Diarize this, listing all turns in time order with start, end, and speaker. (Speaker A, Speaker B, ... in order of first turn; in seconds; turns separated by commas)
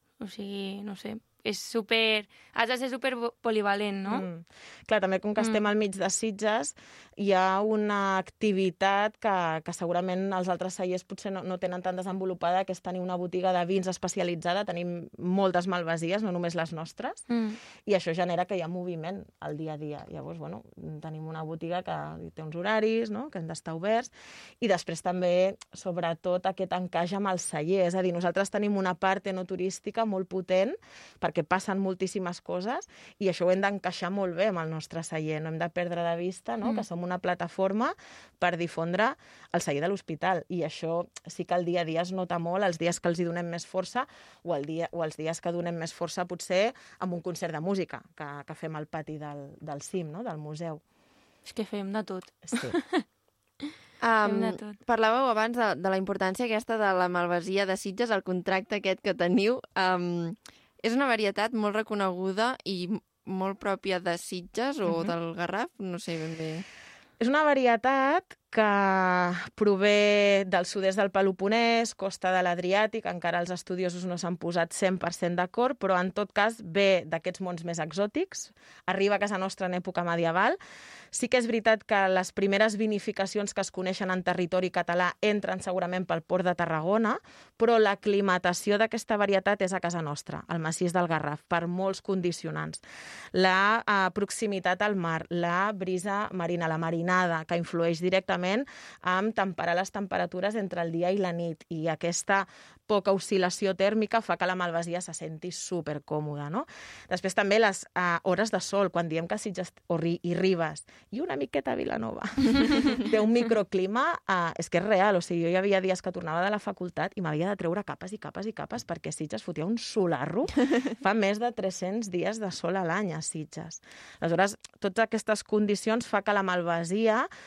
Speaker A: 0.2-4.3, Speaker B: 4.1-17.2, Speaker A: 5.4-5.6, Speaker A: 17.3-17.6, Speaker B: 17.8-50.8, Speaker A: 51.4-53.0, Speaker B: 52.5-52.7, Speaker C: 54.0-66.6, Speaker A: 54.2-54.8, Speaker B: 67.2-80.6, Speaker B: 81.1-92.8, Speaker B: 93.3-127.3